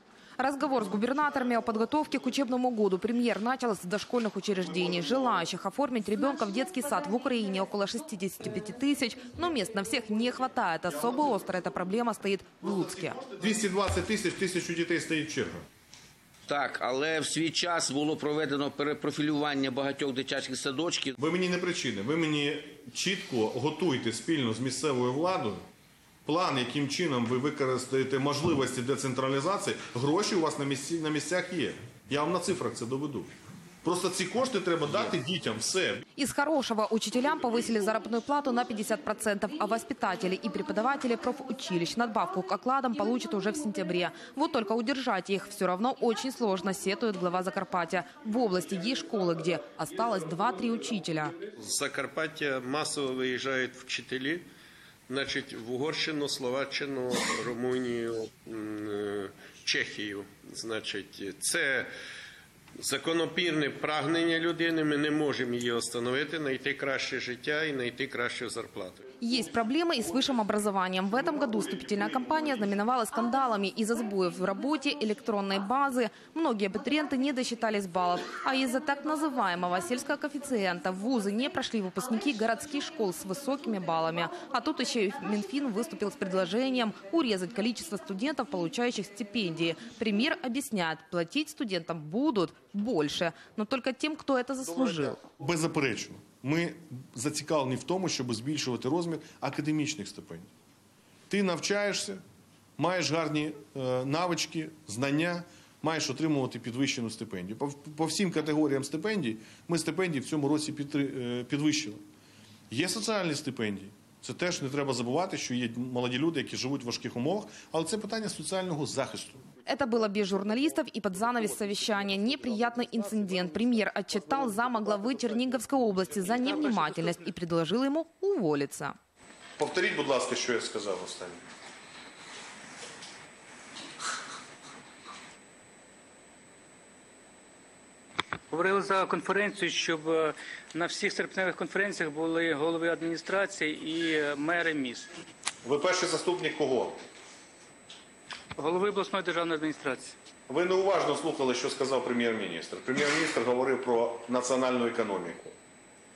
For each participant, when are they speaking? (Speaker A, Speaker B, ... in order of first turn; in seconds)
Speaker A: 0.4-13.2, 36.1-51.4, 69.2-95.2, 119.6-128.9
Speaker B: 13.2-15.6, 21.2-25.6, 26.2-33.3, 33.8-36.0, 95.2-100.5, 101.3-102.2, 102.8-112.0, 112.7-119.4, 129.6-131.4, 145.6-147.0, 150.5-155.5
Speaker C: 16.5-21.1
Speaker D: 51.5-54.4, 55.1-61.9, 62.8-69.0
Speaker E: 138.5-145.1, 148.6-150.1